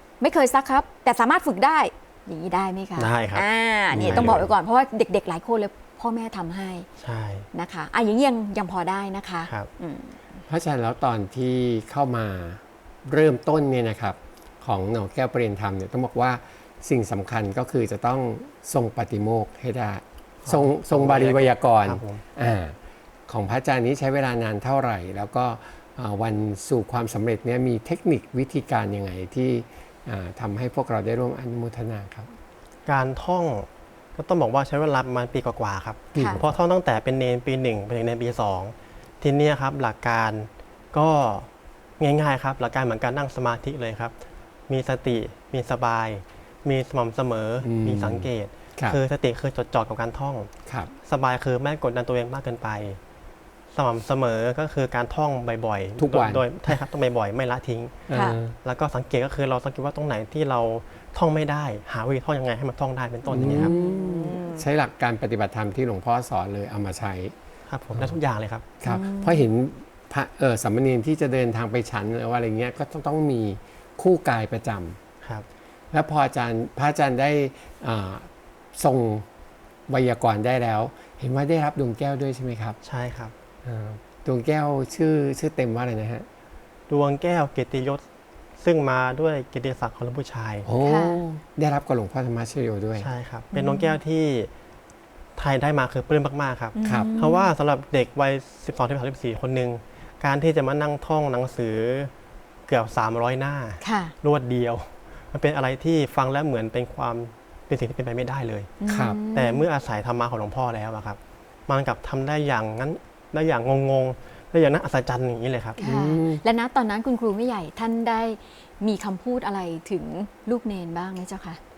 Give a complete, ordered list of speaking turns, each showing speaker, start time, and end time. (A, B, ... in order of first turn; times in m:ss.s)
0:00.2-0:06.9 A
0:03.0-0:04.4 B
0:03.9-0:04.5 C
0:07.0-0:07.5 B
0:07.5-0:10.2 A
0:10.5-0:22.8 C
0:20.4-0:22.2 B
0:23.3-0:32.3 C
0:32.8-0:44.1 B
0:36.1-0:36.6 C
0:36.1-0:36.4 A
0:44.7-0:50.5 B
0:47.6-0:49.0 C
0:50.7-0:50.9 C
0:51.0-0:53.0 B
0:53.7-0:58.1 B
0:56.0-0:56.4 C
0:58.1-0:58.5 C
0:58.1-0:58.4 A
0:58.6-1:03.7 B
1:03.3-1:07.3 C
1:03.4-1:04.6 A
1:07.7-1:08.7 B
1:08.8-1:15.0 C
1:08.8-1:09.4 A
1:15.9-1:19.3 C
1:19.9-1:22.8 C
1:22.8-1:23.3 B
1:23.6-1:26.3 C
1:26.9-1:28.0 B
1:28.6-1:30.7 B
1:30.6-1:33.1 C
1:30.8-1:31.2 A
1:33.0-1:34.5 B
1:33.5-1:33.9 A
1:35.4-1:42.1 B
1:36.8-1:37.5 A
1:36.8-1:37.1 C
1:42.7-1:48.7 B
1:43.8-1:44.1 A
1:48.8-1:49.6 A
1:48.9-1:49.2 C
1:49.3-1:55.8 B
1:55.8-1:56.4 C
1:55.8-2:01.6 A